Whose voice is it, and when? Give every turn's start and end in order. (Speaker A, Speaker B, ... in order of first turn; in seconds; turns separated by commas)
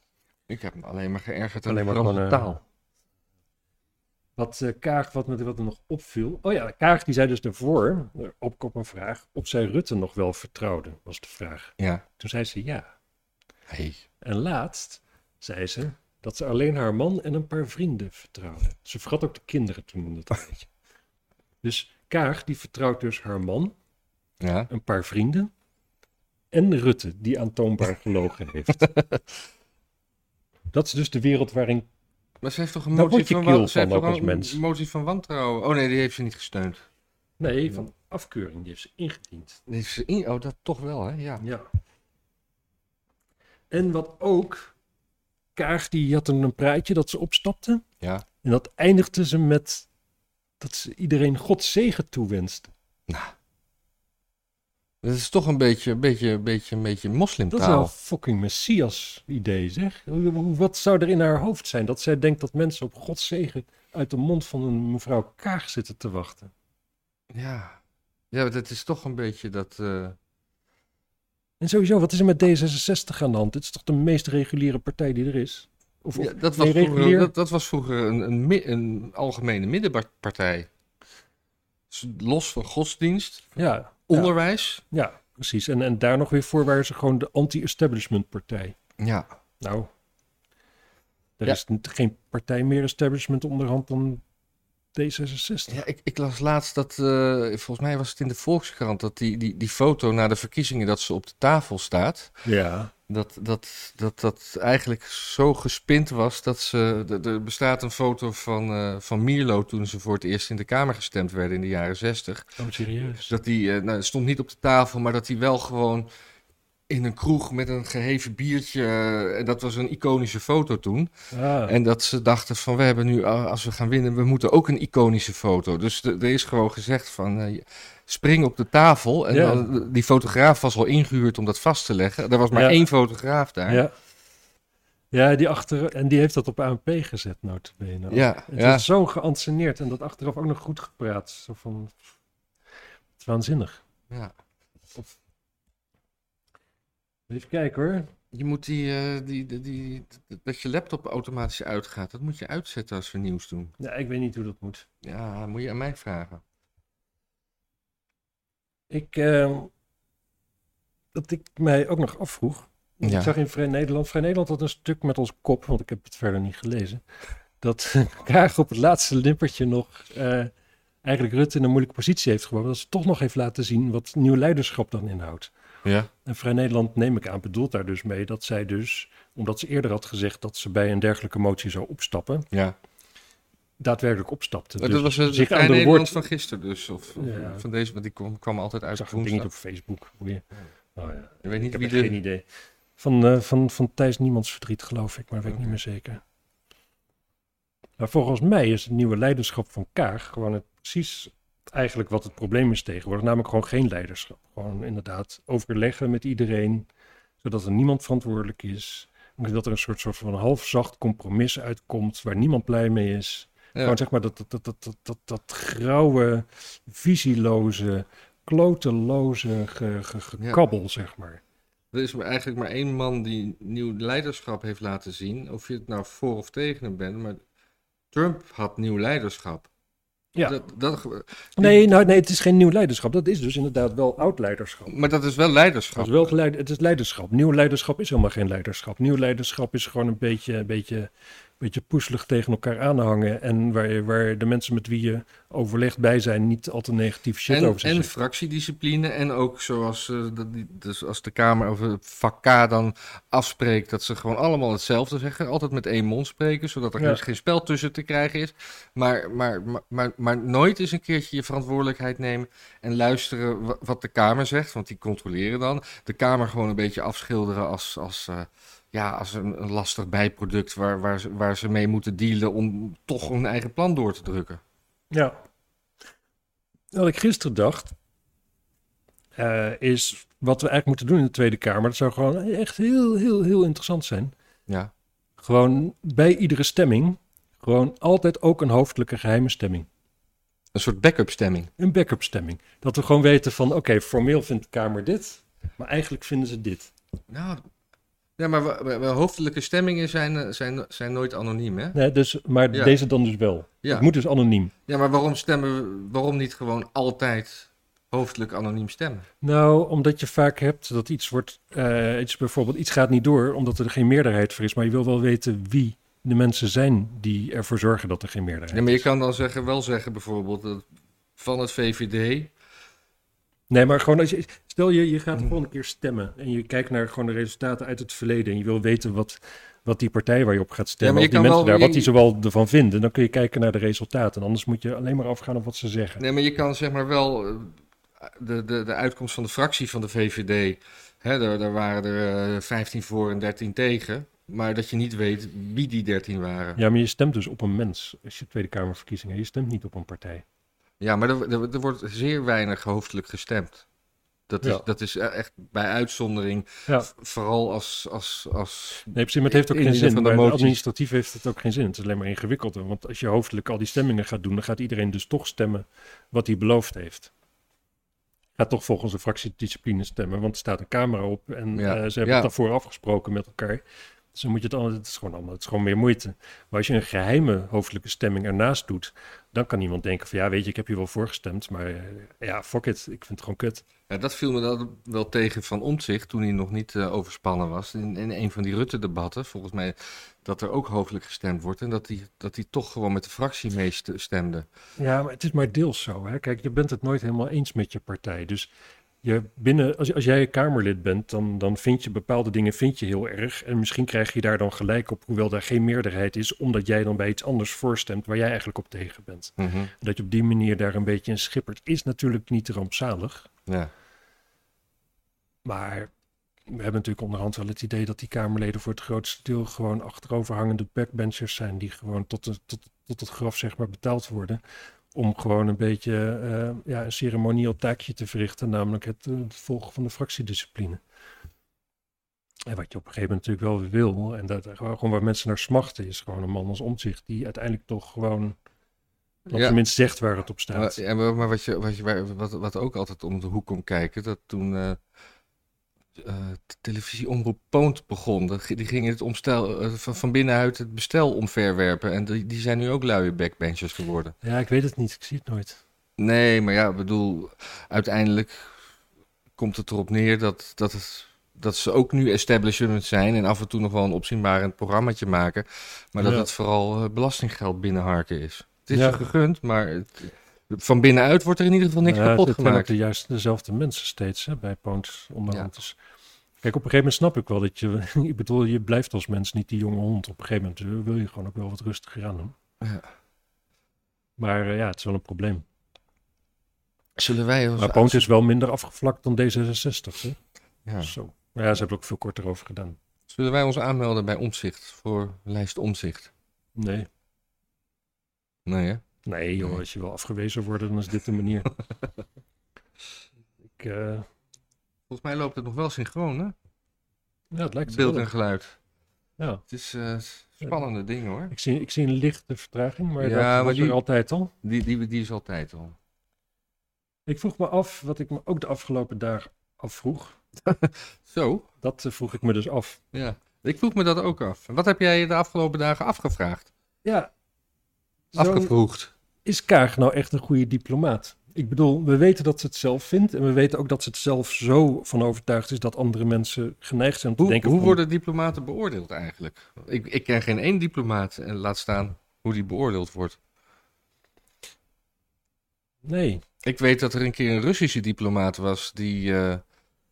Speaker A: 0.5-2.6, Speaker B: 1.6-2.6, Speaker B: 4.4-12.9, Speaker A: 11.8-12.0, Speaker A: 13.7-14.0, Speaker B: 14.2-20.7, Speaker B: 21.6-23.8, Speaker A: 24.4-24.7, Speaker B: 24.7-25.5, Speaker B: 26.5-28.9, Speaker A: 28.8-29.2, Speaker B: 30.7-31.9, Speaker A: 32.4-36.9, Speaker B: 32.9-34.6, Speaker B: 37.4-39.6, Speaker A: 39.7-41.4, Speaker B: 41.4-41.7, Speaker B: 43.7-44.7, Speaker B: 45.6-47.8, Speaker B: 48.4-49.9, Speaker B: 50.6-52.7, Speaker A: 53.1-53.3, Speaker A: 55.0-57.9, Speaker B: 57.5-66.5, Speaker A: 67.3-67.8, Speaker A: 68.3-70.2, Speaker B: 71.6-77.3, Speaker A: 76.2-80.7, Speaker A: 81.9-83.6, Speaker B: 83.6-84.3, Speaker A: 84.1-84.8, Speaker B: 84.9-88.8, Speaker A: 89.0-89.3, Speaker B: 89.6-89.9, Speaker B: 91.4-94.2, Speaker B: 95.0-95.8, Speaker A: 95.7-102.4, Speaker B: 102.5-102.9, Speaker A: 103.1-112.5, Speaker B: 112.6-113.3, Speaker A: 113.1-116.1, Speaker A: 116.9-121.1, Speaker B: 121.3-121.8, Speaker A: 121.7-133.8, Speaker B: 129.3-129.7, Speaker B: 132.5-132.8, Speaker B: 133.7-133.9, Speaker B: 135.1-142.0, Speaker A: 138.1-138.9, Speaker B: 143.2-143.8, Speaker B: 147.3-148.1, Speaker A: 148.3-153.7, Speaker B: 153.8-154.9, Speaker A: 155.0-156.4, Speaker B: 158.9-159.7, Speaker B: 161.1-167.0, Speaker A: 163.0-163.3, Speaker B: 167.6-170.5, Speaker B: 171.0-175.5, Speaker A: 175.8-176.1, Speaker B: 176.2-182.5, Speaker B: 183.8-186.2, Speaker A: 184.8-189.5, Speaker B: 187.2-187.6, Speaker B: 188.9-192.4, Speaker A: 191.4-192.2, Speaker B: 193.0-196.2, Speaker A: 195.5-195.8, Speaker B: 198.0-206.9, Speaker B: 207.4-221.4, Speaker A: 221.9-227.4, Speaker A: 228.1-229.7, Speaker B: 230.3-230.6, Speaker A: 230.4-231.8, Speaker B: 231.6-234.9, Speaker A: 234.9-236.3, Speaker B: 235.9-248.1, Speaker A: 247.5-274.6, Speaker B: 275.1-275.4, Speaker B: 276.9-277.9, Speaker B: 279.4-284.3, Speaker B: 285.4-289.9, Speaker A: 290.7-291.7, Speaker B: 291.8-296.9, Speaker A: 297.3-297.6, Speaker A: 298.4-302.0, Speaker B: 301.9-304.7, Speaker A: 302.7-303.0, Speaker A: 303.8-304.1, Speaker A: 304.9-309.3, Speaker B: 309.4-319.1, Speaker A: 318.7-320.9, Speaker A: 321.4-322.5, Speaker B: 323.7-336.2, Speaker A: 331.0-332.1, Speaker A: 336.2-346.8, Speaker B: 346.8-350.4, Speaker A: 351.0-353.9, Speaker A: 354.5-360.8, Speaker B: 359.1-367.3, Speaker B: 368.6-373.8, Speaker A: 371.8-372.5, Speaker B: 374.3-383.8, Speaker A: 384.1-394.7, Speaker B: 395.0-398.7, Speaker B: 399.2-413.5, Speaker A: 409.6-409.9, Speaker B: 415.6-416.1, Speaker B: 416.7-424.6, Speaker B: 425.1-431.0, Speaker B: 432.7-438.6, Speaker B: 439.5-441.0, Speaker A: 439.5-439.8, Speaker A: 440.7-445.0, Speaker A: 446.2-454.4, Speaker B: 454.4-455.8, Speaker A: 456.2-458.8, Speaker A: 459.6-472.9, Speaker B: 466.2-466.5, Speaker B: 468.9-469.2, Speaker B: 472.0-476.0, Speaker B: 476.6-482.6, Speaker A: 482.8-483.1, Speaker B: 484.4-485.6, Speaker A: 487.2-488.3, Speaker B: 487.8-490.4, Speaker A: 490.9-491.1, Speaker B: 491.0-493.0, Speaker A: 493.3-496.3, Speaker B: 496.8-497.1, Speaker A: 498.7-499.0, Speaker B: 499.3-501.7, Speaker B: 503.8-504.3, Speaker A: 505.1-506.6, Speaker B: 507.5-508.3, Speaker A: 507.9-508.8, Speaker A: 509.7-511.5, Speaker B: 511.5-514.5, Speaker A: 513.2-514.0, Speaker A: 514.6-516.0, Speaker B: 517.3-520.4, Speaker A: 520.6-521.7, Speaker B: 521.8-523.0, Speaker A: 523.1-526.7, Speaker B: 527.0-527.3, Speaker B: 528.3-528.7, Speaker A: 528.4-529.1, Speaker B: 529.5-538.0, Speaker A: 537.4-543.4, Speaker B: 546.0-546.4, Speaker A: 546.6-549.6